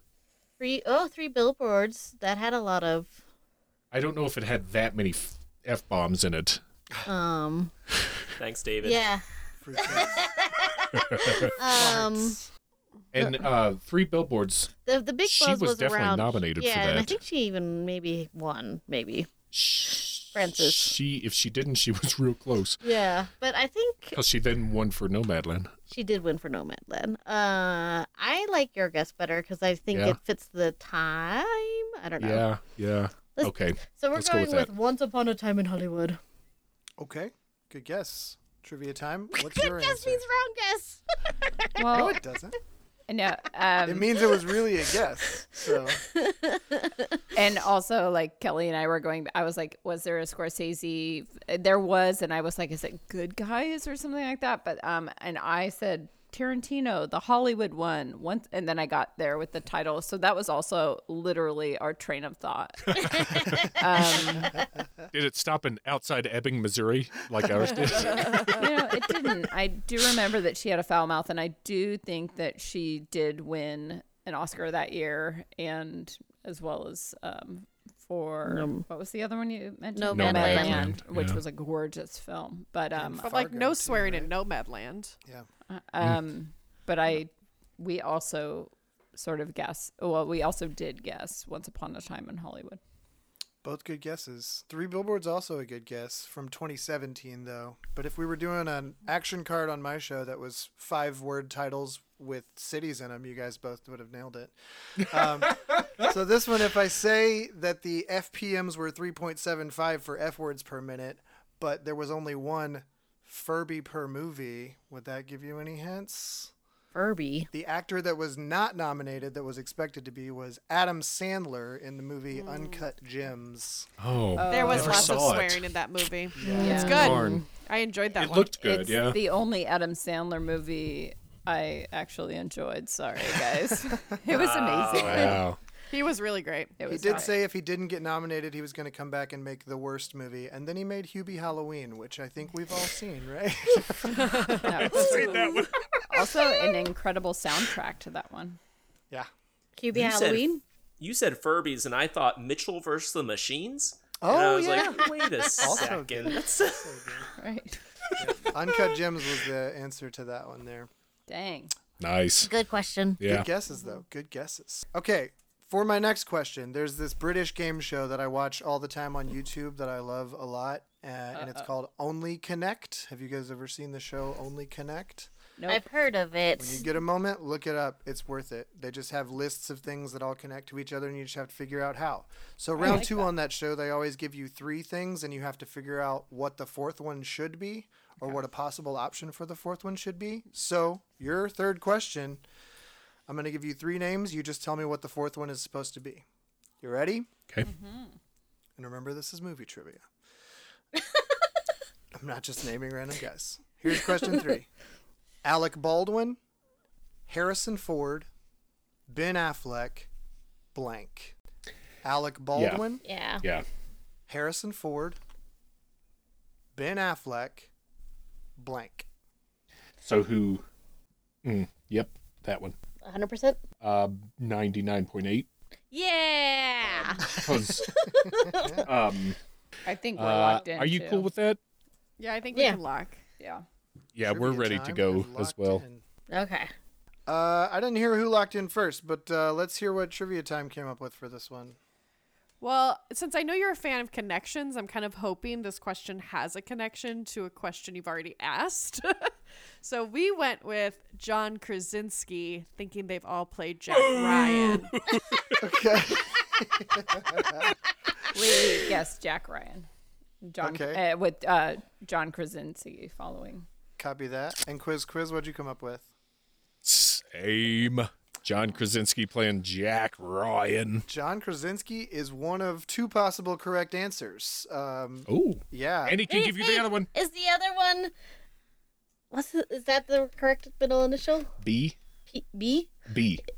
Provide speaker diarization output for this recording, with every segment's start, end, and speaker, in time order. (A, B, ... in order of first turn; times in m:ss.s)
0:00.6-0:03.2 A
0:03.9-0:06.6 B
0:07.0-0:07.7 A
0:08.4-0:09.0 C
0:08.8-0:12.4 A
0:09.6-0:10.3 D
0:11.0-0:11.6 B
0:11.6-0:12.4 D
0:13.1-0:14.7 B
0:14.8-0:19.3 A
0:15.2-0:17.2 B
0:19.5-0:22.8 B
0:20.3-0:21.0 A
0:22.8-0:24.2 A
0:24.1-0:25.7 B
0:25.9-0:32.5 A
0:29.9-0:30.2 B
0:32.2-0:34.7 B
0:33.3-0:36.2 A
0:37.0-0:40.2 D
0:39.4-0:41.8 A
0:41.8-0:42.2 E
0:41.9-0:42.6 D
0:43.1-0:44.2 E
0:43.8-0:46.1 D
0:46.0-0:47.2 A
0:47.3-1:04.5 E
1:03.2-1:03.6 A
1:05.1-1:08.6 B
1:08.5-1:23.3 E
1:18.5-1:18.8 A
1:20.0-1:20.9 A
1:20.1-1:21.4 B
1:22.9-1:24.3 D
1:23.2-1:25.1 F
1:25.7-1:32.8 E
1:33.6-1:56.5 D
1:56.9-1:57.5 A
1:57.5-2:03.9 D
2:02.3-2:02.8 F
2:04.0-2:05.7 B
2:04.3-2:05.2 E
2:04.5-2:08.6 F
2:06.4-2:06.8 D
2:06.4-2:07.4 A
2:06.5-2:07.2 E
2:06.9-2:07.4 B
2:08.2-2:09.2 B
2:08.6-2:15.4 E
2:14.3-2:15.3 C
2:14.9-2:15.6 B
2:15.9-2:17.2 F
2:16.8-2:17.4 E
2:16.9-2:25.2 D
2:24.4-2:25.8 B
2:24.6-2:25.4 E
2:26.1-2:28.6 E
2:29.8-2:30.6 A
2:29.9-2:30.5 C
2:31.0-2:37.2 C
2:34.2-2:37.3 D
2:34.8-2:35.8 A
2:37.4-2:37.8 E
2:38.2-2:40.9 D
2:41.3-2:41.7 E
2:42.0-2:42.5 B
2:42.4-2:43.2 A
2:43.2-2:43.5 B
2:43.2-2:55.3 D
2:51.3-2:51.7 E
2:55.6-2:55.8 E
2:55.7-2:56.8 A
2:56.6-3:12.4 D
3:02.8-3:03.3 E
3:13.3-3:16.2 D
3:16.8-3:17.3 D
3:17.6-3:18.1 E
3:18.8-3:20.1 D
3:22.1-3:24.7 D
3:25.4-3:26.4 D
3:27.3-3:28.3 D
3:29.1-3:30.1 D
3:30.7-3:31.3 D
3:32.0-3:33.0 D
3:32.5-3:32.8 B
3:33.0-3:33.4 A
3:34.3-3:35.2 D
3:36.7-3:37.7 D
3:38.6-3:39.1 D
3:40.0-3:40.6 B
3:41.4-3:42.8 B
3:43.0-3:43.6 A
3:43.8-3:45.5 B
3:45.9-3:48.8 A
3:47.2-3:47.9 B
3:47.4-3:47.6 D
3:48.3-3:48.9 D
3:48.8-3:49.4 B
3:49.8-3:51.3 E
3:50.2-3:51.6 B
3:52.2-3:53.2 F
3:52.5-3:52.8 A
3:53.4-3:53.6 E
3:54.2-3:55.8 B
3:54.2-3:56.0 D
3:56.3-3:56.7 A
3:57.3-4:01.8 D
4:02.6-4:14.9 F
4:13.9-4:15.6 B
4:15.6-4:17.7 D
4:18.3-4:19.9 E
4:20.4-4:23.6 E
4:20.6-4:21.0 D
4:24.0-4:26.1 D
4:26.8-4:31.0 B
4:31.1-4:36.2 D
4:35.3-4:37.1 B
4:36.3-4:38.1 A
4:39.3-4:41.5 A
4:41.6-4:42.0 B
4:42.3-4:43.0 A
4:43.1-4:43.4 B